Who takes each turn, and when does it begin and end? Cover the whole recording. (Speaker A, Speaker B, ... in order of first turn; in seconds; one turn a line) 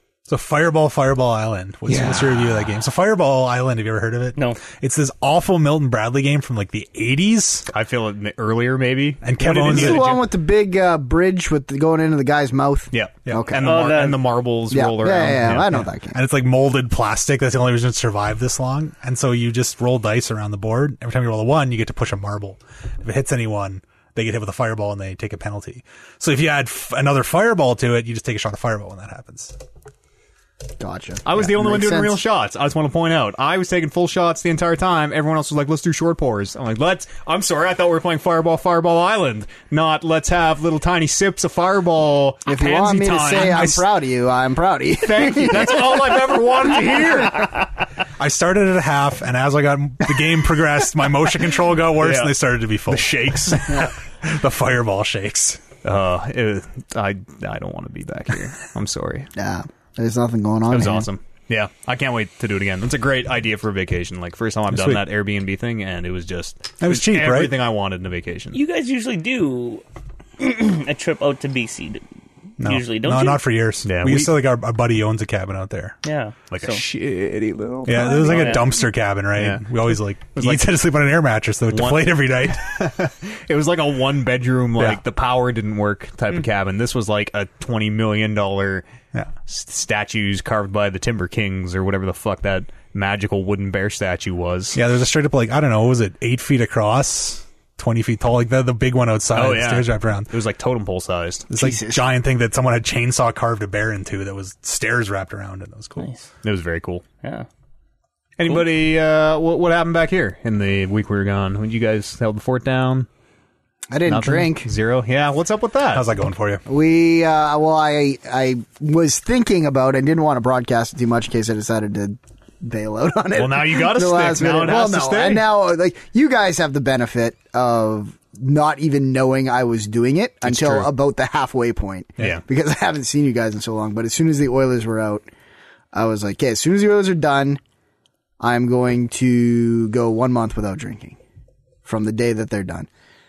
Speaker A: 0.3-7.7
Speaker B: 1.9-2.3
Speaker C: 4.3-4.6
Speaker B: 7.7-10.3
Speaker A: 9.2-10.1
Speaker D: 9.5-13.8
Speaker B: 12.9-15.7
Speaker C: 13.6-14.2
Speaker D: 14.7-16.2
Speaker A: 15.4-29.6
Speaker D: 30.8-32.2
Speaker B: 31.2-43.7
Speaker D: 42.5-46.2
Speaker A: 43.3-43.8
Speaker B: 45.0-47.5
Speaker A: 48.2-55.6
Speaker B: 52.0-52.3
Speaker B: 52.9-53.9
Speaker B: 55.8-59.3
Speaker D: 59.4-61.1
Speaker B: 60.7-68.6
Speaker A: 64.7-65.0
Speaker A: 66.8-67.6
Speaker C: 68.5-69.8
Speaker C: 70.4-72.0
Speaker A: 72.6-76.0
Speaker C: 72.6-73.4
Speaker B: 73.8-74.4
Speaker C: 76.0-76.8
Speaker B: 76.5-78.8
Speaker A: 77.8-82.7
Speaker C: 78.3-78.7
Speaker B: 79.3-80.7
Speaker B: 81.7-88.8
Speaker B: 89.5-94.8
Speaker A: 94.7-100.3
Speaker B: 99.3-101.5
Speaker D: 101.5-102.0
Speaker A: 101.5-106.1
Speaker C: 106.0-106.2
Speaker B: 106.4-107.0
Speaker C: 107.2-107.5
Speaker B: 108.4-113.1
Speaker D: 113.9-114.7
Speaker B: 114.0-116.0
Speaker A: 115.9-116.6
Speaker D: 116.7-135.2
Speaker B: 123.3-125.4
Speaker B: 130.4-130.9
Speaker D: 135.9-137.6
Speaker D: 138.4-141.2
Speaker D: 141.8-142.9